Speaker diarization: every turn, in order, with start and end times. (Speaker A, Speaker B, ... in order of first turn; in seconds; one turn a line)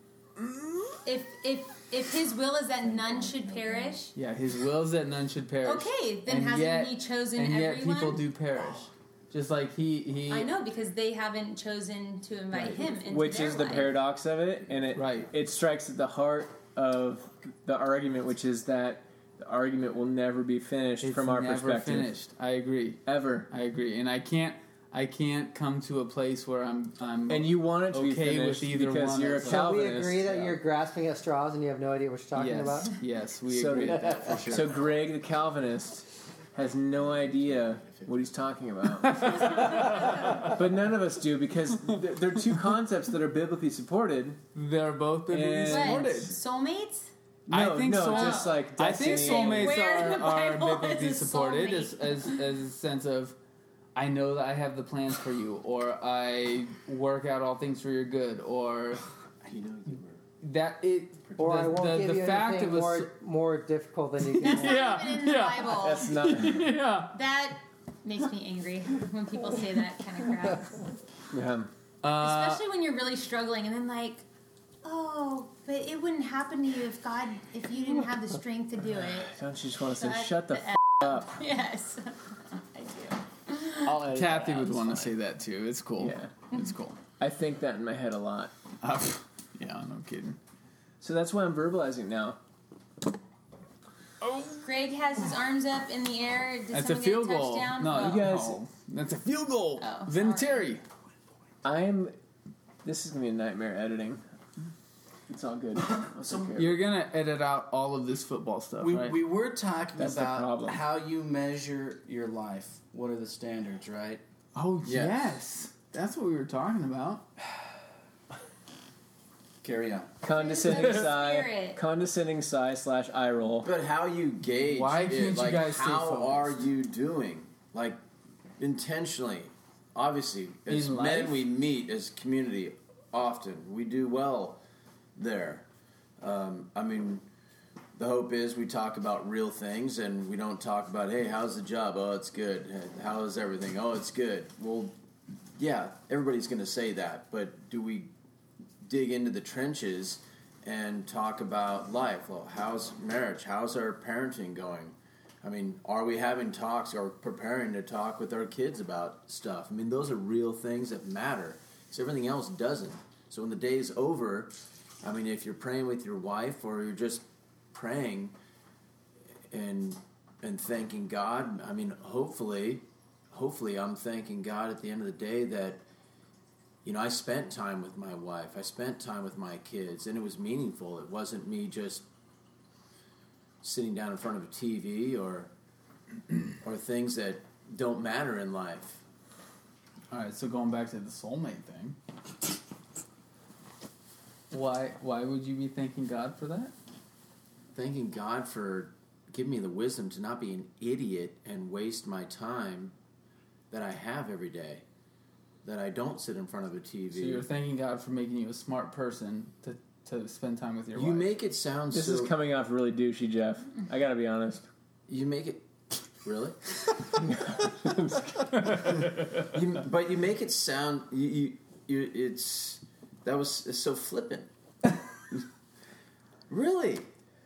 Speaker A: 0.4-0.9
Speaker B: 1.0-4.1
Speaker A: 4.1-10.5
Speaker B: 5.6-8.2
Speaker B: 10.3-13.9
Speaker A: 12.5-12.9
Speaker C: 13.1-22.1
Speaker A: 14.9-15.3
Speaker A: 21.0-29.8
Speaker C: 23.1-23.5
Speaker C: 27.3-30.6
Speaker D: 29.4-32.9
Speaker A: 32.3-34.6
Speaker C: 33.5-44.4
Speaker E: 37.3-38.1
Speaker A: 39.0-40.5
Speaker A: 44.5-46.4
Speaker C: 45.3-46.2
Speaker B: 45.7-47.1
Speaker C: 47.5-49.8
Speaker A: 47.5-53.4
Speaker B: 48.0-52.4
Speaker A: 53.9-59.0
Speaker E: 59.4-60.2
Speaker A: 60.4-63.1
Speaker D: 61.4-64.8
Speaker B: 64.4-66.2
Speaker A: 64.4-67.2
Speaker C: 65.8-66.7
Speaker B: 67.1-70.9
Speaker C: 71.3-71.7
Speaker A: 72.0-72.6
Speaker B: 72.2-74.2
Speaker B: 74.8-79.3
Speaker C: 79.0-81.3
Speaker B: 79.9-84.0
Speaker C: 83.8-85.1
Speaker A: 84.0-87.0
Speaker C: 86.0-86.3
Speaker C: 87.2-88.5
Speaker A: 88.8-90.4
Speaker C: 91.0-92.4
Speaker A: 94.2-94.6
Speaker B: 94.6-98.3
Speaker A: 96.7-100.8
Speaker C: 98.0-98.6
Speaker B: 99.8-100.7
Speaker C: 101.6-102.1
Speaker C: 102.8-104.2
Speaker C: 105.3-106.8
Speaker A: 106.5-109.2
Speaker F: 108.8-114.2
Speaker C: 110.0-110.8
Speaker A: 114.5-117.2
Speaker E: 114.8-115.3
Speaker F: 119.6-120.2
Speaker C: 120.2-123.7
Speaker B: 120.3-121.8
Speaker E: 123.6-128.0
Speaker A: 124.6-126.6
Speaker E: 128.6-134.6
Speaker A: 130.7-131.4
Speaker E: 135.2-135.6
Speaker E: 136.2-137.2
Speaker E: 138.0-144.9
Speaker E: 145.6-148.1
Speaker E: 148.8-168.3
Speaker E: 169.5-175.8
Speaker E: 176.8-182.0
Speaker E: 183.6-185.5
Speaker E: 186.6-189.0
Speaker A: 190.1-191.9
Speaker A: 194.5-196.7
Speaker E: 197.7-202.9
Speaker E: 203.7-204.8
Speaker E: 205.6-207.4
Speaker A: 207.1-211.3
Speaker E: 210.9-212.3
Speaker C: 211.9-214.7
Speaker E: 215.1-215.6
Speaker E: 216.2-216.6
Speaker C: 217.2-218.8
Speaker E: 218.7-224.5
Speaker E: 226.5-227.1